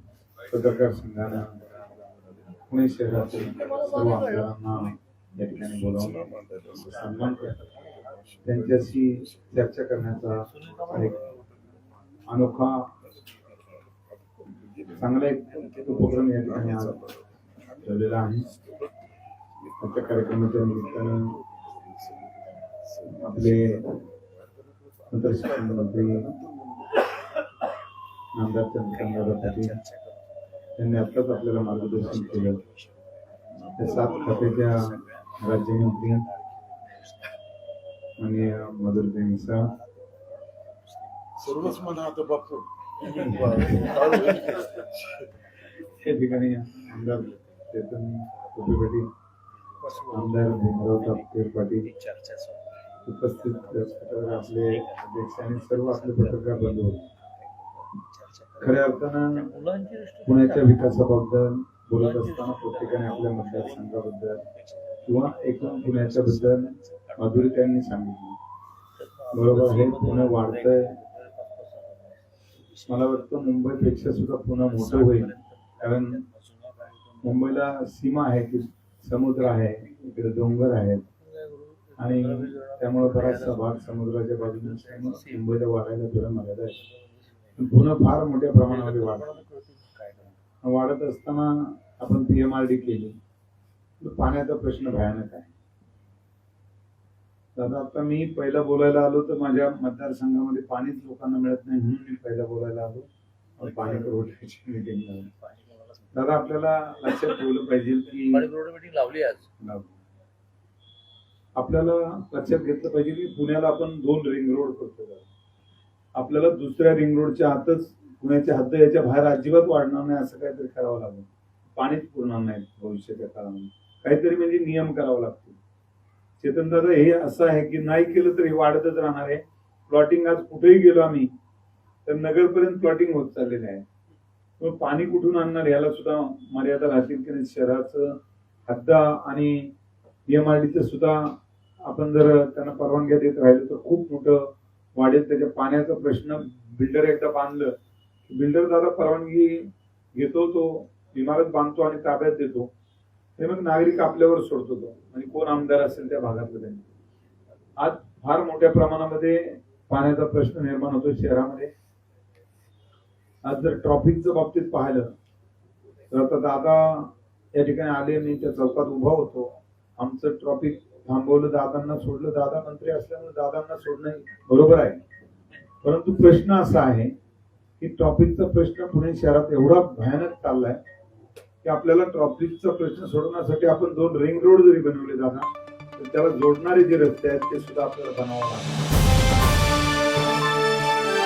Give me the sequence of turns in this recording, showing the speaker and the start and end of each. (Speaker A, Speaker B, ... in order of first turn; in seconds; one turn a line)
Speaker A: 0.5-1.6
Speaker A: 2.7-6.3
Speaker B: 3.6-3.9
Speaker B: 5.9-7.6
Speaker A: 6.8-7.5
Speaker C: 7.1-7.5
Speaker B: 8.2-9.4
Speaker A: 8.4-11.2
Speaker C: 10.5-11.3
Speaker A: 12.3-12.9
Speaker B: 14.7-17.1
Speaker A: 15.0-17.0
Speaker B: 17.8-18.7
Speaker A: 17.8-18.5
Speaker A: 19.8-21.3
Speaker B: 20.4-24.0
Speaker A: 23.1-23.9
Speaker A: 25.1-26.3
Speaker B: 25.2-27.0
Speaker A: 28.4-29.8
Speaker C: 28.9-33.0
Speaker A: 30.8-32.6
Speaker C: 33.5-37.4
Speaker A: 33.8-34.8
Speaker B: 33.8-34.6
Speaker A: 35.4-36.2
Speaker A: 38.2-39.7
Speaker C: 38.3-42.1
Speaker B: 41.4-42.6
Speaker C: 43.0-45.0
Speaker A: 43.0-43.9
Speaker B: 43.2-44.8
Speaker A: 45.9-49.1
Speaker C: 46.1-46.4
Speaker C: 48.3-48.8
Speaker C: 49.8-60.9
Speaker A: 50.1-51.9
Speaker A: 53.0-57.0
Speaker A: 58.6-59.5
Speaker A: 60.2-64.4
Speaker C: 62.0-67.6
Speaker A: 65.0-68.3
Speaker C: 69.0-77.8
Speaker A: 69.3-70.9
Speaker A: 72.9-76.2
Speaker A: 77.2-81.0
Speaker C: 81.2-85.6
Speaker A: 82.0-86.8
Speaker C: 86.7-87.8
Speaker A: 87.6-89.4
Speaker C: 88.6-90.4
Speaker A: 90.6-93.2
Speaker A: 94.0-95.5
Speaker A: 97.5-103.1
Speaker A: 103.6-105.3
Speaker C: 103.6-104.2
Speaker C: 105.3-106.8
Speaker A: 106.1-108.5
Speaker C: 108.1-109.5
Speaker A: 109.6-109.9
Speaker A: 111.6-115.3
Speaker A: 116.2-125.6
Speaker A: 126.4-131.3
Speaker A: 132.1-133.8
Speaker A: 134.6-138.0
Speaker A: 138.7-139.7
Speaker A: 140.3-141.2
Speaker A: 141.8-144.4
Speaker A: 145.0-147.7
Speaker A: 148.3-152.7
Speaker A: 153.4-156.8
Speaker A: 157.8-161.7
Speaker A: 163.4-165.1
Speaker A: 166.1-175.0
Speaker A: 175.8-177.1
Speaker A: 177.8-180.8
Speaker A: 181.6-188.8